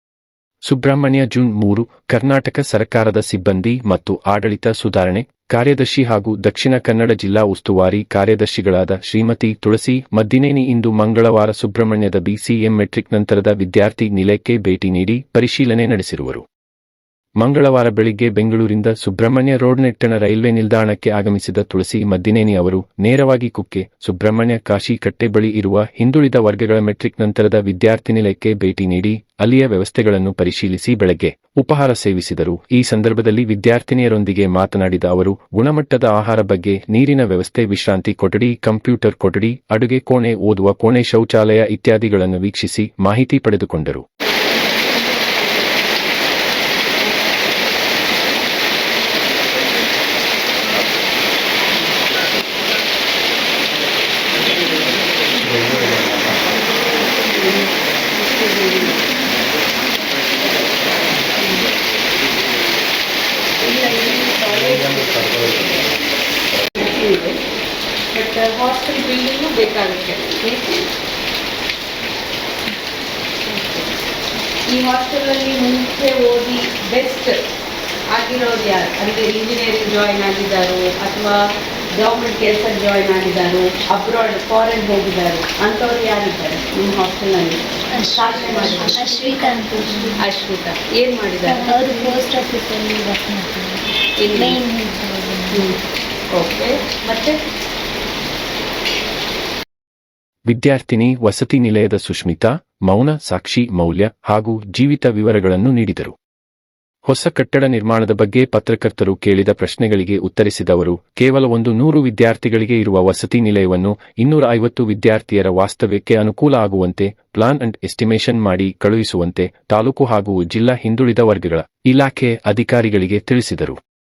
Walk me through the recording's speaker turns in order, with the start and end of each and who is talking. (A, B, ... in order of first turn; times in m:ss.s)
0:00.6-0:16.4 A
0:17.4-0:44.0 A
0:57.0-0:59.1 B
1:01.4-1:01.7 B
1:03.6-1:05.9 B
1:06.8-1:07.4 B
1:08.1-1:10.8 B
1:13.5-1:13.9 B
1:14.7-1:17.4 B
1:18.1-1:21.4 B
1:21.9-1:29.3 B
1:27.9-1:30.2 C
1:30.1-1:32.2 B
1:31.4-1:33.8 C
1:34.2-1:34.6 B
1:34.3-1:35.6 C
1:35.5-1:35.8 B
1:36.3-1:37.4 B
1:40.5-1:46.1 A
1:47.1-2:03.8 A